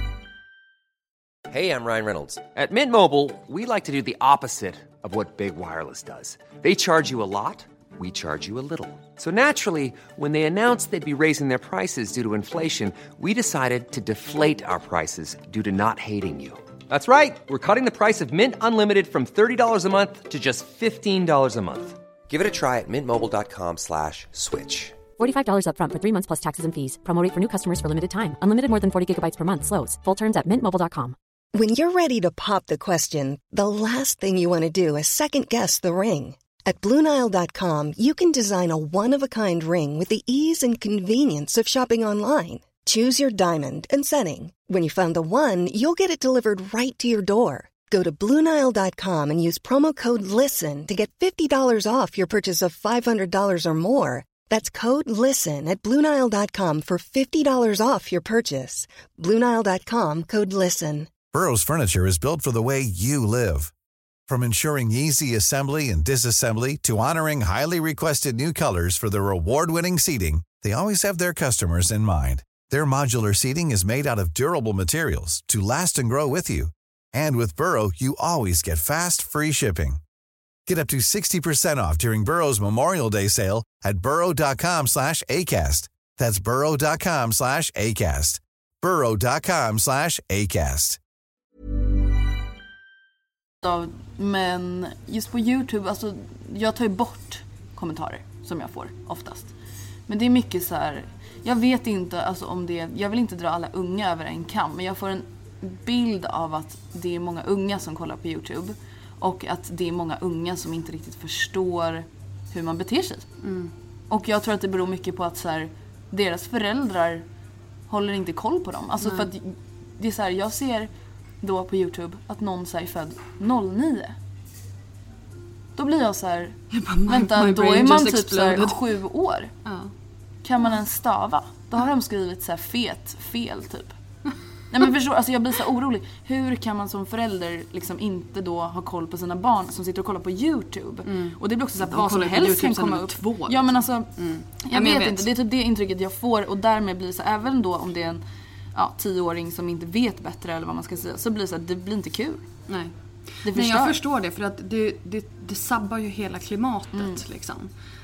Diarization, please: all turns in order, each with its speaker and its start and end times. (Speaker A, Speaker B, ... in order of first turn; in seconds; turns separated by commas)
Speaker A: 1.5-25.1, Speaker B: 25.1-31.1, Speaker C: 31.5-61.1, Speaker D: 61.3-63.7, Speaker D: 64.3-80.0, Speaker D: 80.7-91.0, Speaker E: 93.6-99.5, Speaker E: 100.1-113.3, Speaker F: 113.4-113.7, Speaker E: 114.1-117.2, Speaker E: 117.9-120.9, Speaker E: 121.4-124.1, Speaker E: 125.8-129.5, Speaker F: 126.7-128.8, Speaker F: 129.6-129.9, Speaker E: 130.4-133.9, Speaker E: 134.7-144.1, Speaker F: 141.1-143.6, Speaker F: 144.2-145.3, Speaker E: 144.6-148.2, Speaker E: 148.7-152.4, Speaker F: 152.7-157.7, Speaker E: 153.4-154.0, Speaker E: 156.9-157.2